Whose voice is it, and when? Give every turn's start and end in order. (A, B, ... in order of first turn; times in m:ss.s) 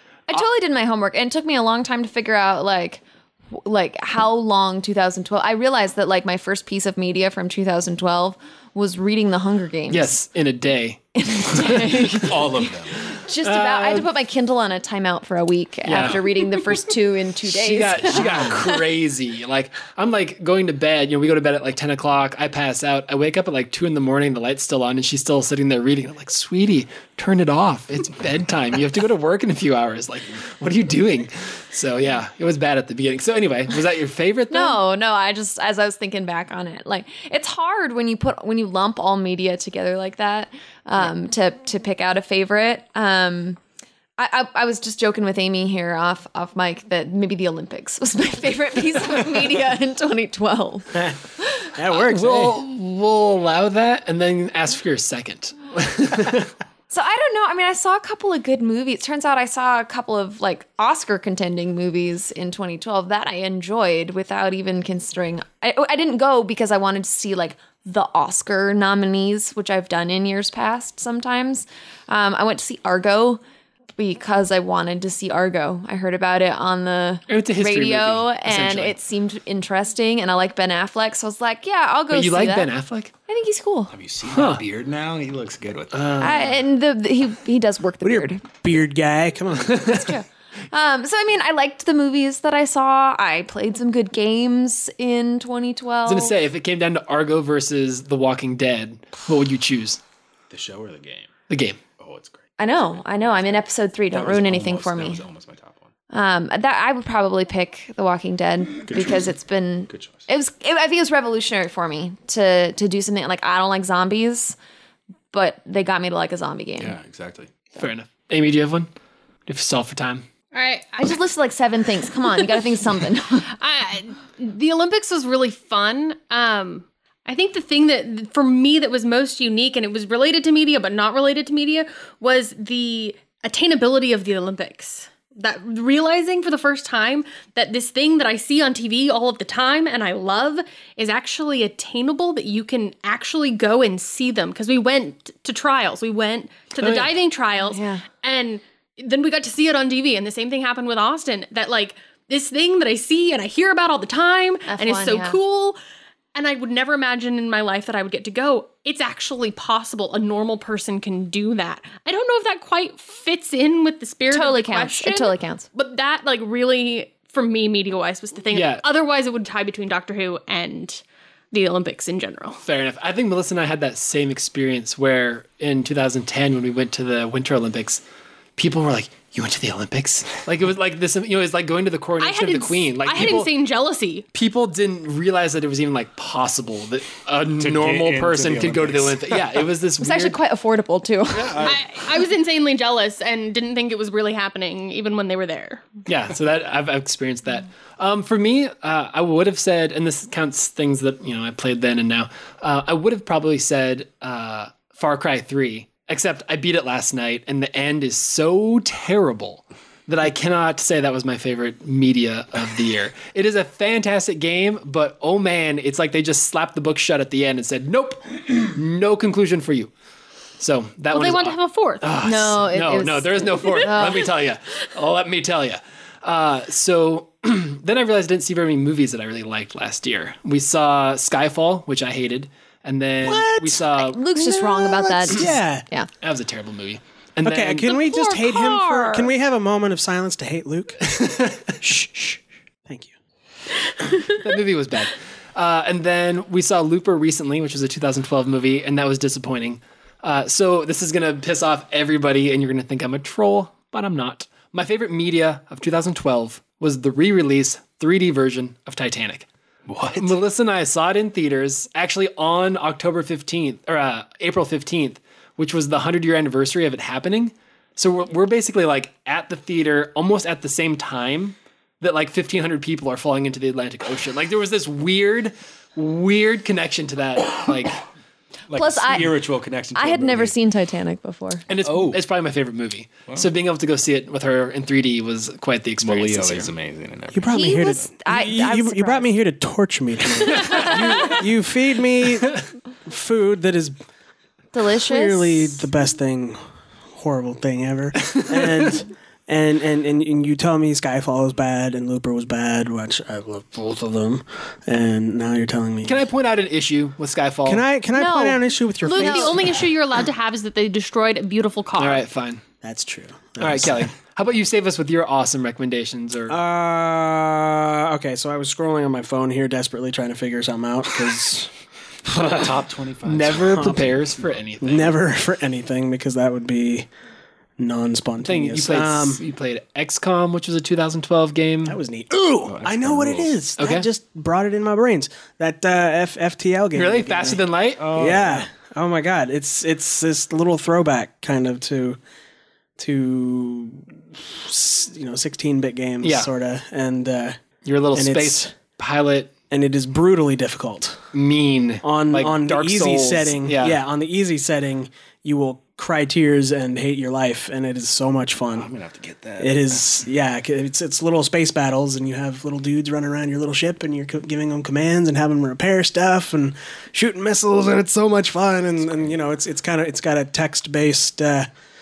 0:00.3-0:10.1 A
0:09.9-0:12.2 B
0:11.1-0:18.8 A
0:12.2-0:12.9 C
0:13.1-0:14.1 B
0:15.8-0:16.2 B
0:17.5-0:34.8 B
0:34.5-0:43.6 A
0:44.2-0:51.7 A
0:51.7-0:52.6 D
0:51.9-0:56.5 B
0:56.9-1:13.4 A
1:14.0-1:22.7 A
1:17.3-1:18.9 B
1:22.1-1:23.1 B
1:23.3-1:23.9 A
1:23.9-1:26.3 C
1:24.3-1:24.6 B
1:26.2-1:28.5 A
1:28.0-1:30.1 D
1:29.6-1:30.0 B
1:29.7-1:36.3 A
1:36.0-1:40.0 B
1:40.5-1:41.3 C
1:41.5-1:41.8 B
1:42.0-1:45.9 C
1:42.6-1:45.2 A
1:46.1-1:54.6 A
1:48.9-1:49.2 C
1:49.9-1:50.2 C
1:55.3-1:57.0 A
1:56.8-1:57.5 C
1:57.8-1:58.9 B
1:59.5-2:00.2 B
2:00.5-2:01.1 E
2:01.0-2:03.5 A
2:03.5-2:35.8 E
2:26.8-2:27.1 B
2:27.6-2:28.1 A
2:34.7-2:35.4 A
2:36.3-2:52.6 E
2:44.3-2:45.7 A
2:48.5-2:48.8 B
2:52.6-2:58.0 B
2:58.6-3:03.5 B
3:02.2-3:04.3 E
3:04.3-3:10.4 B
3:07.6-3:09.6 C
3:10.0-3:11.7 A
3:11.3-3:11.9 C
3:11.6-3:15.8 E
3:16.0-3:39.9 B
3:40.6-3:54.2 B
3:41.1-3:42.0 E
3:42.2-3:44.3 A
3:53.2-3:55.8 D
3:54.0-3:56.1 A
3:56.2-3:58.0 B
3:57.4-4:01.2 D
3:57.9-3:59.3 E
4:01.1-4:01.6 B
4:01.8-4:03.1 D
4:04.3-4:19.5 B
4:19.9-4:20.4 C
4:20.1-4:38.0 B
4:38.7-4:40.5 C
4:38.7-4:39.4 A
4:39.9-4:41.6 A
4:41.7-4:46.7 B
4:41.8-4:42.2 C
4:46.0-4:48.0 C
4:47.3-4:53.9 D
4:47.5-4:49.3 A
4:50.7-4:51.3 A
4:54.7-4:55.8 A
4:54.9-4:56.6 D
4:57.1-5:06.3 D
5:06.0-5:07.8 B
5:07.6-5:09.8 D
5:08.1-5:09.5 A
5:09.0-5:12.2 E
5:12.0-5:12.6 B
5:12.8-5:14.1 D
5:13.6-5:16.6 B
5:16.5-5:21.7 D
5:22.2-5:22.8 D
5:22.5-5:23.9 C
5:23.2-5:25.2 B
5:23.7-5:24.1 D
5:24.8-5:27.1 D
5:27.8-5:29.4 D
5:28.4-5:32.0 B
5:31.8-5:42.2 D
5:32.6-5:33.5 C
5:33.8-5:34.1 B
5:36.9-5:38.0 B
5:38.0-5:38.7 C
5:43.0-5:47.6 D
5:46.2-5:46.5 B
5:47.8-5:49.5 B
5:48.1-5:48.7 D
5:49.7-5:51.2 D
5:51.3-5:54.0 B
5:52.0-5:58.9 D
5:58.7-6:00.1 C
5:59.6-6:11.7 D
6:09.0-6:09.3 C